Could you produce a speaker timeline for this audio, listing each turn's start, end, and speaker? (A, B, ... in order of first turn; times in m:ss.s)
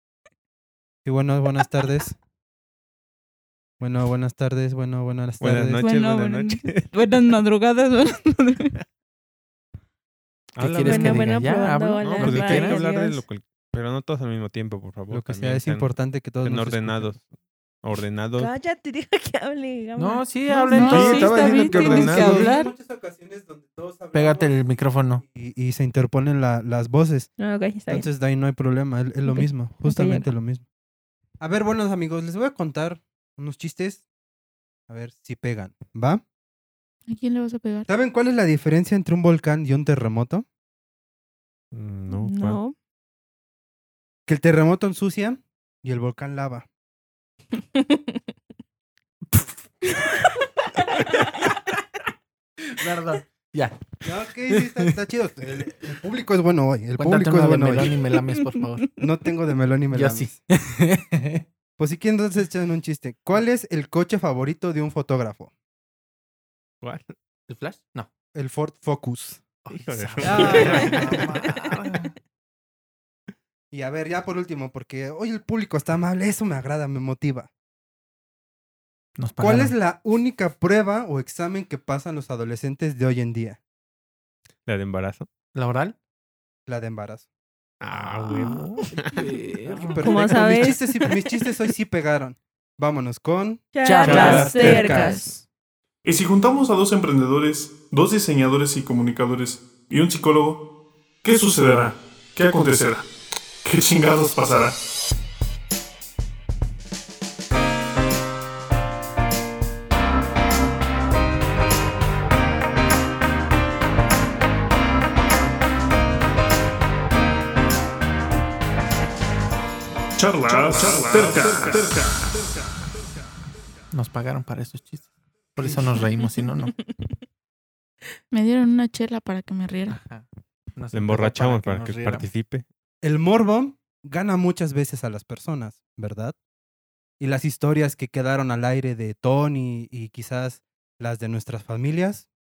0:01.0-0:02.2 A
0:03.8-0:05.8 A
0:05.4-0:06.8 B
0:05.8-0:08.8 C
0:10.5-0:11.4 B
0:10.6-0:12.8 D
0:10.9-0:13.2 E
0:12.0-0:15.9 B
0:15.1-0:17.1 A
0:16.4-0:17.2 B
0:17.8-0:18.5 B
0:18.4-0:20.8 E
0:20.0-0:22.7 D
0:20.7-0:22.4 C
0:20.7-0:22.5 B
0:20.9-0:24.5 A
0:24.1-0:25.2 D
0:25.2-0:27.3 A
0:27.4-0:28.0 E
0:27.9-0:30.6 A
0:29.3-0:30.2 E
0:31.4-0:34.0 A
0:34.9-0:36.2 A
0:37.1-0:37.9 C
0:37.9-0:40.4 A
0:41.7-0:42.6 B
0:42.1-0:42.7 E
0:44.3-0:46.7 A
0:47.7-0:48.2 E
0:49.3-0:49.9 D
0:51.1-0:51.8 D
0:52.6-0:54.9 D
0:54.0-0:58.0 A
0:57.0-0:58.8 D
0:59.0-1:00.4 A
0:59.9-1:01.4 D
1:01.8-1:05.5 A
1:06.8-1:07.1 B
1:07.5-1:08.1 D
1:08.3-1:09.4 A
1:09.6-1:12.1 D
1:09.7-1:12.0 B
1:10.2-1:11.4 A
1:13.7-1:17.5 A
1:19.2-1:19.7 D
1:19.4-1:23.6 A
1:24.6-1:25.3 B
1:25.5-1:26.0 D
1:26.7-1:27.3 A
1:27.8-1:29.3 B
1:28.0-1:30.4 D
1:29.8-1:35.2 A
1:30.0-1:30.8 E
1:33.7-1:35.4 E
1:33.8-1:34.8 D
1:33.9-1:35.4 C
1:36.0-1:40.6 F
1:41.2-1:43.1 F
1:43.6-1:44.8 F
2:00.2-2:02.3 F
2:00.8-2:02.0 B
2:03.9-2:06.7 D
2:08.3-2:10.0 C
2:09.9-2:12.3 D
2:10.9-2:12.6 B
2:13.0-2:16.4 A
2:17.2-2:22.3 A